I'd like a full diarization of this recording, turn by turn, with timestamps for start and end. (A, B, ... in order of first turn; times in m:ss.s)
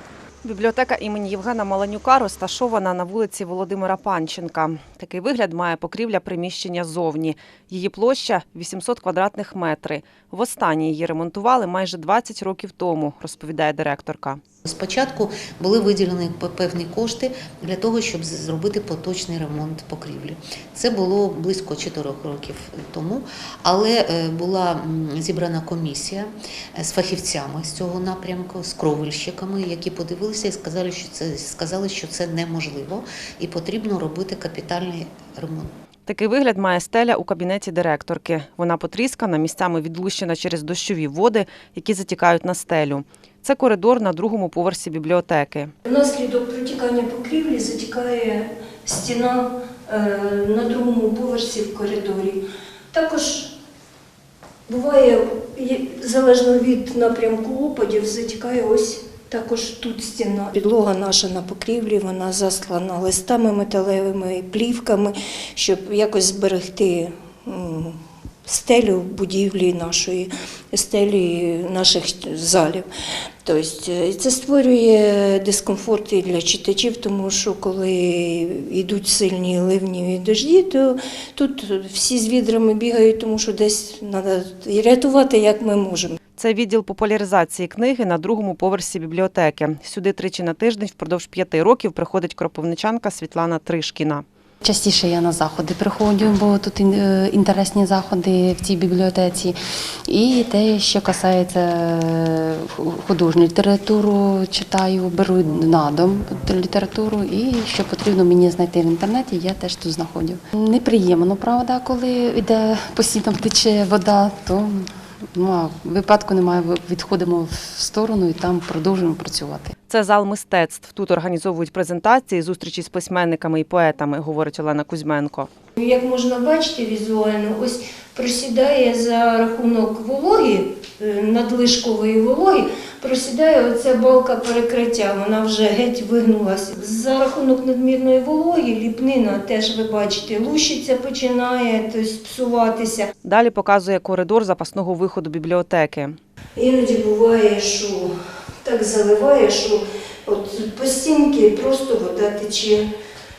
0:00.4-0:14.4 A
0:14.6-0:35.7 B
0:36.1-0:45.7 A
0:45.8-0:52.4 C
0:52.9-0:53.5 C
0:54.7-1:12.9 C
1:13.4-1:26.2 C
1:26.4-1:34.2 A
1:34.6-1:59.7 D
1:59.9-2:05.5 A
2:05.8-2:23.1 C
2:23.2-2:26.2 A
2:26.6-2:32.8 C